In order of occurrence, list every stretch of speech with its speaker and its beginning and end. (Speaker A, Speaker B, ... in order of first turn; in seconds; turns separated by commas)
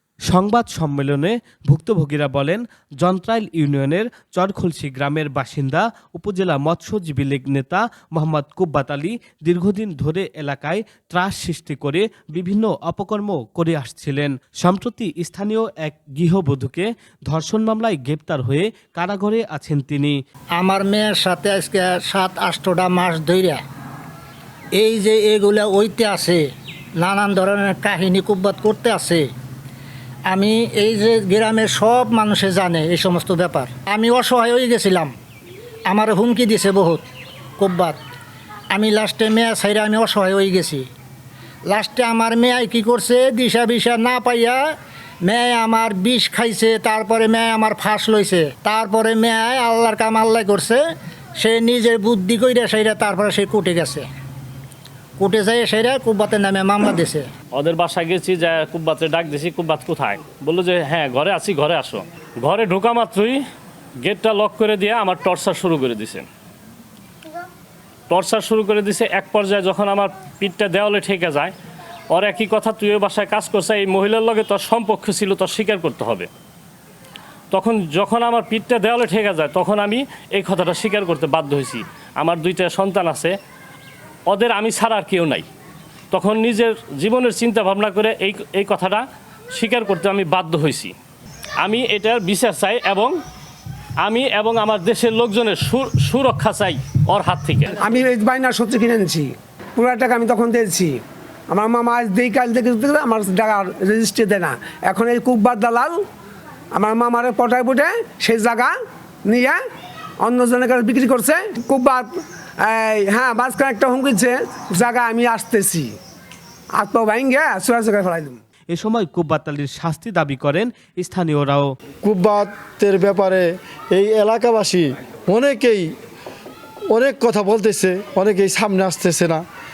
Speaker A: 0.3-20.2, Speaker B: 20.6-23.6, Speaker B: 24.8-26.5, Speaker B: 27.0-29.3, Speaker B: 30.3-35.1, Speaker B: 35.9-37.1, Speaker B: 37.6-38.0, Speaker B: 38.7-40.9, Speaker B: 41.7-44.7, Speaker B: 45.2-50.8, Speaker B: 51.4-54.1, Speaker B: 55.2-57.3, Speaker C: 57.5-63.4, Speaker C: 64.0-66.3, Speaker C: 68.1-71.5, Speaker C: 72.1-76.3, Speaker C: 77.5-83.3, Speaker C: 84.3-85.5, Speaker C: 86.1-90.9, Speaker C: 91.6-93.2, Speaker C: 94.0-97.8, Speaker D: 97.9-101.0, Speaker D: 101.5-106.0, Speaker D: 106.7-108.7, Speaker D: 109.3-109.6, Speaker D: 110.2-112.1, Speaker D: 112.6-115.9, Speaker D: 116.8-118.4, Speaker A: 118.7-121.7, Speaker E: 122.0-125.9, Speaker E: 126.9-129.4